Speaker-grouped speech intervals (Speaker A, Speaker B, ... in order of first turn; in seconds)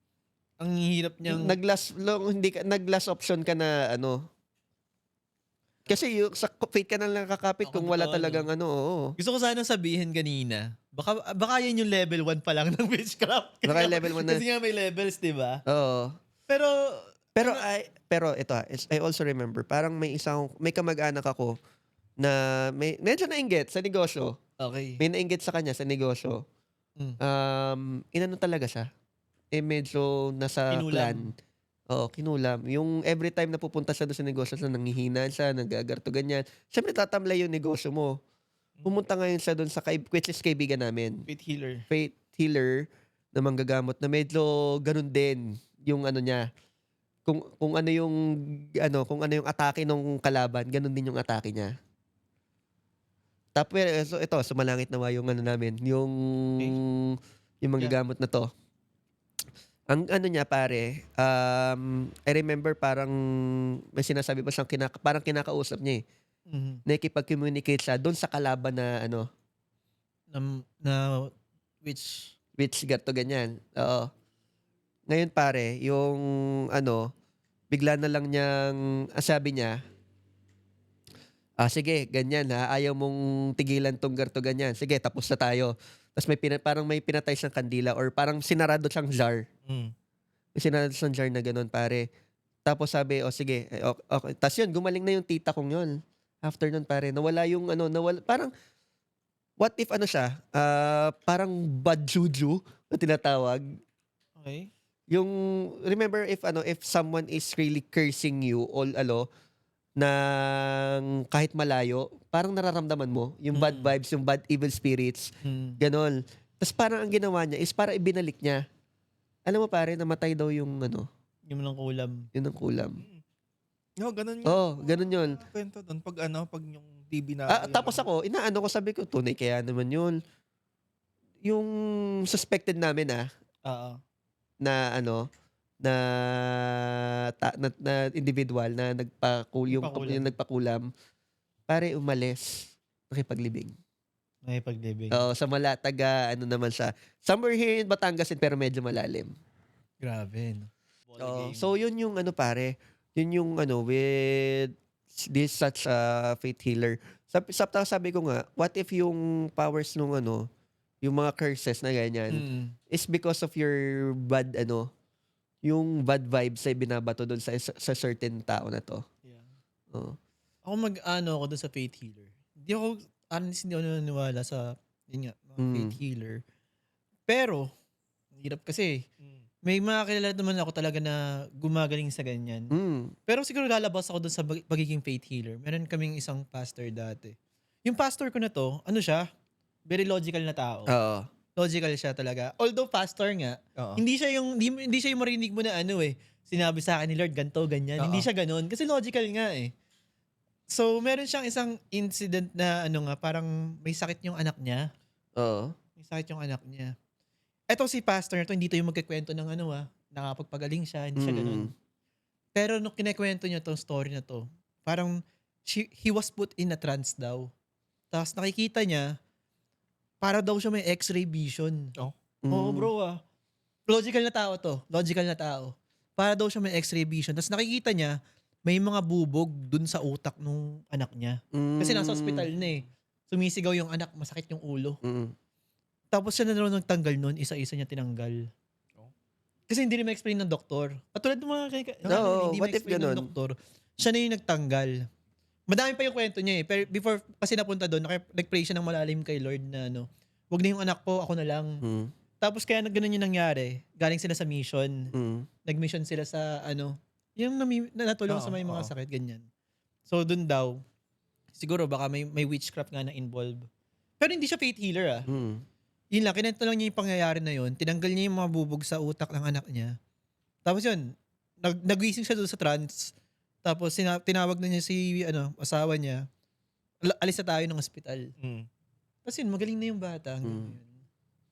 Speaker A: 0.6-1.6, 7.6-8.5, 9.2-15.6, 16.5-17.6, 24.6-25.0, 30.7-31.3, 41.3-41.8, 66.5-66.8, 70.3-71.3, 71.8-72.3, 104.4-104.7, 113.5-113.9, 115.4-115.8, 121.5-122.3, 133.7-134.0, 139.7-140.3, 144.4-145.2, 150.0-151.7, 162.3-162.8, 170.7-176.4, 177.3-177.7, 178.3-179.0, 179.6-182.7, 183.3-189.3, 189.9-190.9, 191.6-199.7, 200.7-204.9, 206.0-206.9, 207.7-211.7, 212.5-217.5, 218.1-219.2, 220.2-221.9, 222.5-223.2, 223.9-235.0, 236.1-238.5, 239.7-245.1, 245.7-251.8, 252.4-255.1, 255.7-259.4, 260.1-260.8, 261.5-263.7, 264.2-265.3, 266.1-270.0, 270.6-273.1, 273.6-276.2, 277.1-278.3, 279.2-281.0
Speaker B: 1.2-4.2, 5.9-9.1, 13.7-14.4, 15.7-16.1, 17.4-21.6, 22.2-24.4, 25.0-26.4, 27.2-28.9, 29.5-31.3, 31.9-38.2, 38.8-41.2, 41.9-46.4, 47.2-51.7, 53.5-58.5, 59.9-66.0, 66.8-69.3, 72.6-74.1, 75.1-77.1, 77.7-79.8, 81.6-89.5, 90.5-92.0, 92.6-98.5, 99.6-103.7, 105.1-109.3, 110.0-118.6, 119.5-121.1, 122.3-123.0, 124.4-125.4, 127.5-130.2, 131.4-133.2, 134.6-135.3, 135.8-140.9, 141.7-143.7, 145.1-149.3, 151.2-160.5, 161.0-164.9, 165.6-169.0, 175.6-175.9, 182.7-183.2, 190.9-191.3, 205.4-205.7, 211.2-211.7, 222.4-222.9, 231.5-232.4, 235.0-235.3, 242.1-243.3, 251.8-252.1, 255.1-255.5, 265.3-265.6, 280.4-280.7
Speaker C: 89.7-89.9, 124.0-128.0, 193.8-194.0, 198.0-198.3, 258.3-258.9, 278.4-278.7